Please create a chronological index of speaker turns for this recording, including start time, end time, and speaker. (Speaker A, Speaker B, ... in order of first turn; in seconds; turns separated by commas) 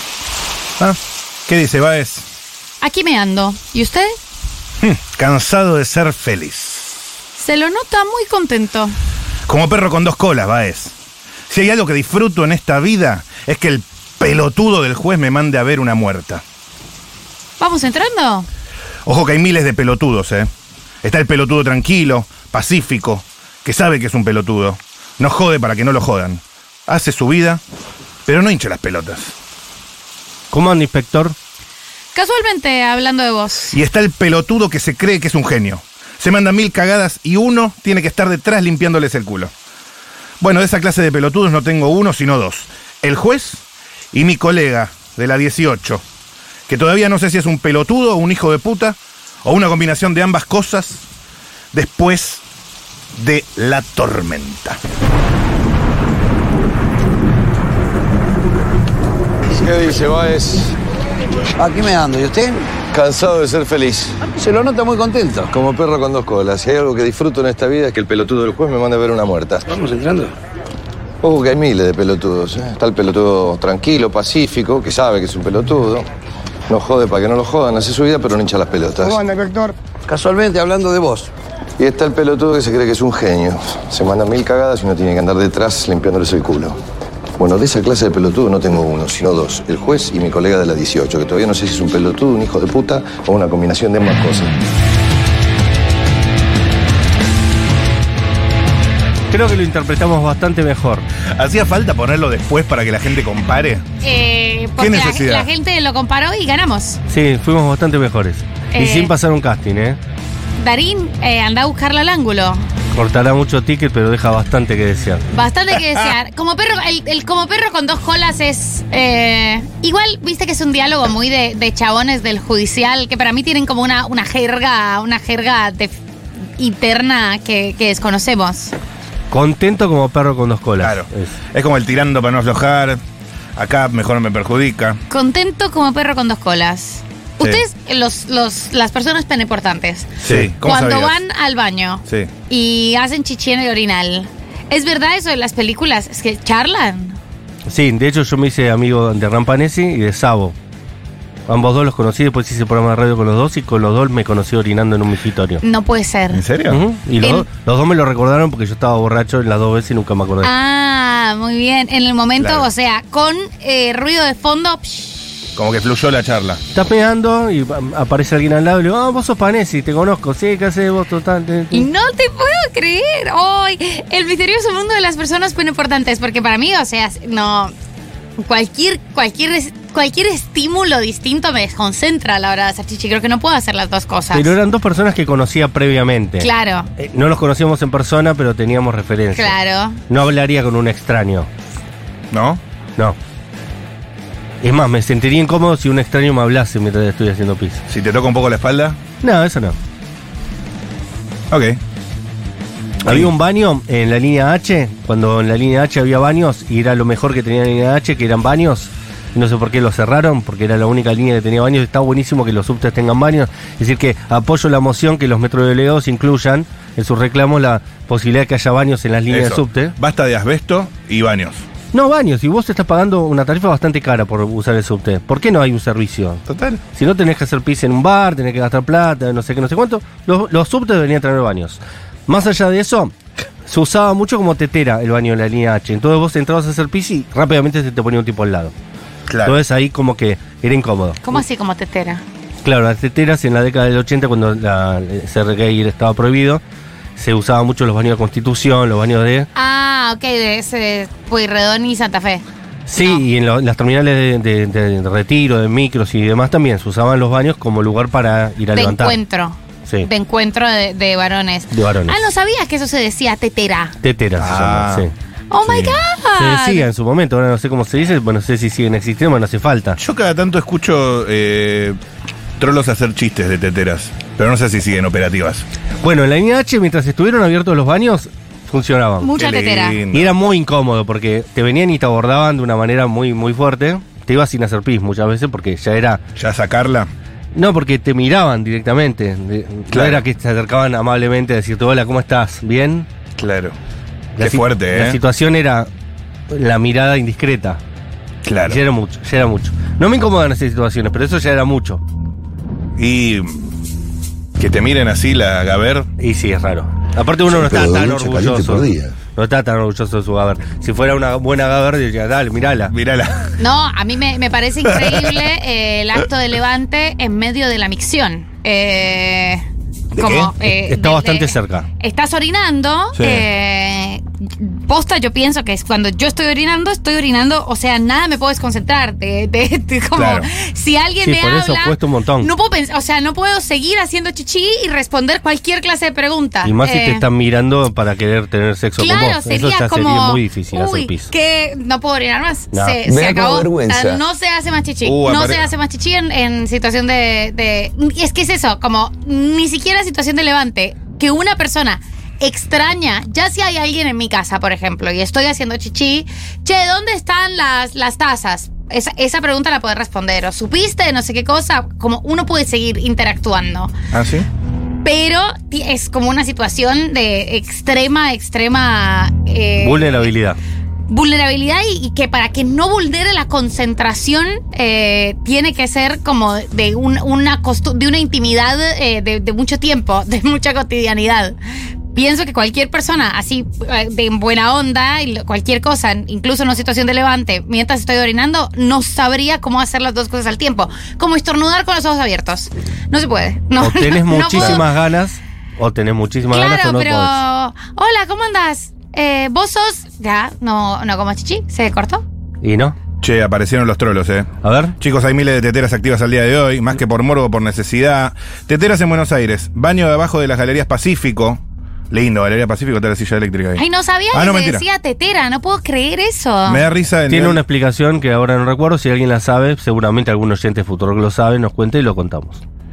Speaker A: 0.8-2.3, Speaker B: 2.8-4.2, Speaker A: 4.8-7.0, Speaker B: 7.4-9.0, Speaker A: 9.5-11.0, Speaker A: 11.5-16.4, Speaker B: 17.6-18.5, Speaker A: 19.1-20.5, Speaker A: 21.0-27.6, Speaker A: 28.3-29.4, Speaker C: 30.5-31.4, Speaker B: 32.1-33.8, Speaker A: 33.7-39.5, Speaker A: 40.4-46.0, Speaker A: 46.7-51.1, Speaker A: 51.7-52.4, Speaker A: 53.1-54.8, Speaker D: 59.5-60.8, Speaker E: 61.6-62.6, Speaker D: 62.9-64.2, Speaker E: 64.2-65.5, Speaker D: 65.5-69.8, Speaker D: 71.2-76.1, Speaker D: 76.7-79.2, Speaker E: 80.1-81.3, Speaker D: 81.8-86.8, Speaker D: 87.4-94.6, Speaker C: 99.3-101.1, Speaker A: 101.3-103.8, Speaker B: 104.0-107.0, Speaker A: 104.8-105.5, Speaker C: 107.1-110.0, Speaker B: 108.7-109.1, Speaker B: 110.6-112.7, Speaker C: 112.9-115.2, Speaker B: 115.3-125.9, Speaker B: 126.6-128.7, Speaker C: 129.3-131.3, Speaker A: 130.8-133.0, Speaker A: 133.6-135.0, Speaker B: 135.1-147.2, Speaker A: 140.2-141.2, Speaker C: 147.7-150.6, Speaker C: 151.5-155.6, Speaker B: 155.6-156.4, Speaker A: 156.3-156.8, Speaker C: 156.7-160.5, Speaker B: 160.4-165.4, Speaker A: 162.4-162.7, Speaker A: 165.6-166.6, Speaker C: 166.7-171.9, Speaker B: 171.7-177.7, Speaker B: 178.4-184.5, Speaker C: 184.3-189.5, Speaker B: 186.4-186.9, Speaker B: 189.3-190.0, Speaker C: 190.1-191.5, Speaker A: 192.3-192.6, Speaker C: 194.6-197.8, Speaker A: 197.9-199.0, Speaker C: 199.2-199.8, Speaker A: 201.5-201.8, Speaker C: 203.0-219.9, Speaker A: 203.1-203.3, Speaker A: 219.3-221.7, Speaker C: 221.9-226.4, Speaker A: 226.5-226.8, Speaker C: 226.9-233.2, Speaker C: 233.7-238.7, Speaker A: 239.3-239.6, Speaker C: 239.4-241.3, Speaker B: 241.2-242.2, Speaker C: 242.7-246.6, Speaker C: 247.2-249.5, Speaker B: 249.6-252.4, Speaker C: 252.9-259.2, Speaker B: 253.0-253.2, Speaker B: 258.8-264.0, Speaker C: 261.7-262.2, Speaker C: 264.0-265.1, Speaker A: 264.4-265.1, Speaker B: 265.5-266.9, Speaker A: 265.6-266.0, Speaker C: 266.4-270.0, Speaker A: 270.0-272.0, Speaker A: 272.6-275.7, Speaker C: 276.0-279.3, Speaker B: 279.2-280.0, Speaker A: 279.4-280.3, Speaker C: 280.1-286.2, Speaker A: 286.4-287.1, Speaker C: 287.5-293.1, Speaker A: 289.9-290.2, Speaker A: 293.4-293.8, Speaker A: 294.4-295.2, Speaker C: 294.4-295.9, Speaker C: 296.5-297.8, Speaker A: 298.4-298.8, Speaker C: 298.7-302.0, Speaker A: 303.0-303.7, Speaker A: 304.6-306.1, Speaker C: 306.2-312.9, Speaker A: 307.6-308.8, Speaker A: 312.9-313.6, Speaker B: 313.6-337.2, Speaker A: 315.0-315.4, Speaker A: 320.1-320.5, Speaker C: 320.6-321.9, Speaker A: 323.1-323.4, Speaker A: 330.1-330.5, Speaker C: 331.2-332.5, Speaker C: 336.6-341.3, Speaker B: 339.0-363.9, Speaker C: 342.7-343.0, Speaker A: 345.0-345.7, Speaker A: 364.1-364.5, Speaker B: 365.0-370.3, Speaker C: 369.8-370.6, Speaker B: 371.1-381.6, Speaker B: 382.1-394.9, Speaker C: 393.8-397.3, Speaker A: 394.5-394.8, Speaker B: 396.5-402.2, Speaker C: 402.6-403.0, Speaker A: 403.2-414.8, Speaker C: 404.6-404.9, Speaker B: 413.8-416.8, Speaker A: 416.7-417.6, Speaker C: 417.3-422.6